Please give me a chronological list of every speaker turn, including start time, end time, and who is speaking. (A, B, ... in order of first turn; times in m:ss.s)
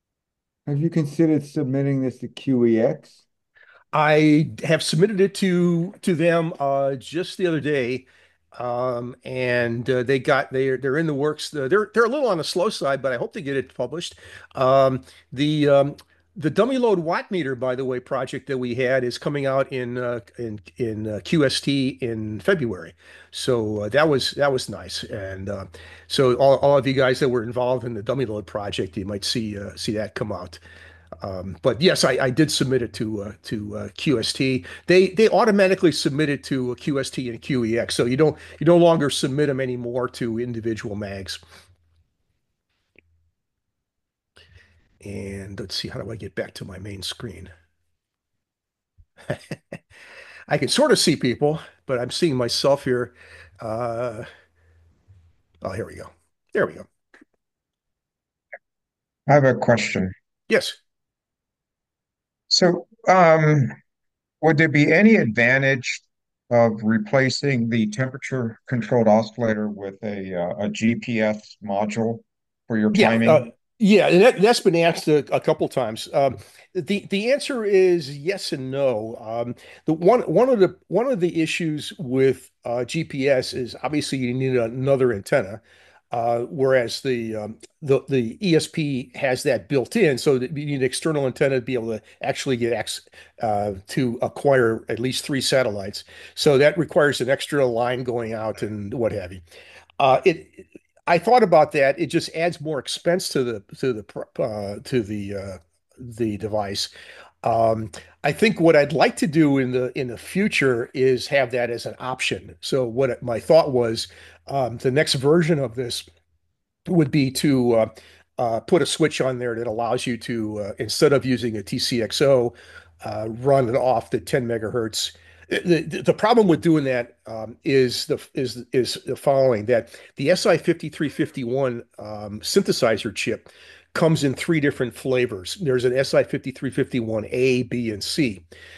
0:00.7-0:03.2 A
0:03.9-0:30.6 B
0:31.2-0:41.4 B
0:45.0-0:47.5 B
0:49.3-0:49.6 B
0:50.5-0:54.3 B
0:55.6-0:56.9 B
0:59.3-1:00.1 C
1:00.5-1:00.8 B
1:02.5-1:03.8 C
1:04.4-1:13.4 C
1:12.9-1:39.4 B
1:40.0-1:46.9 B
1:47.4-1:56.1 B
1:56.9-2:18.4 B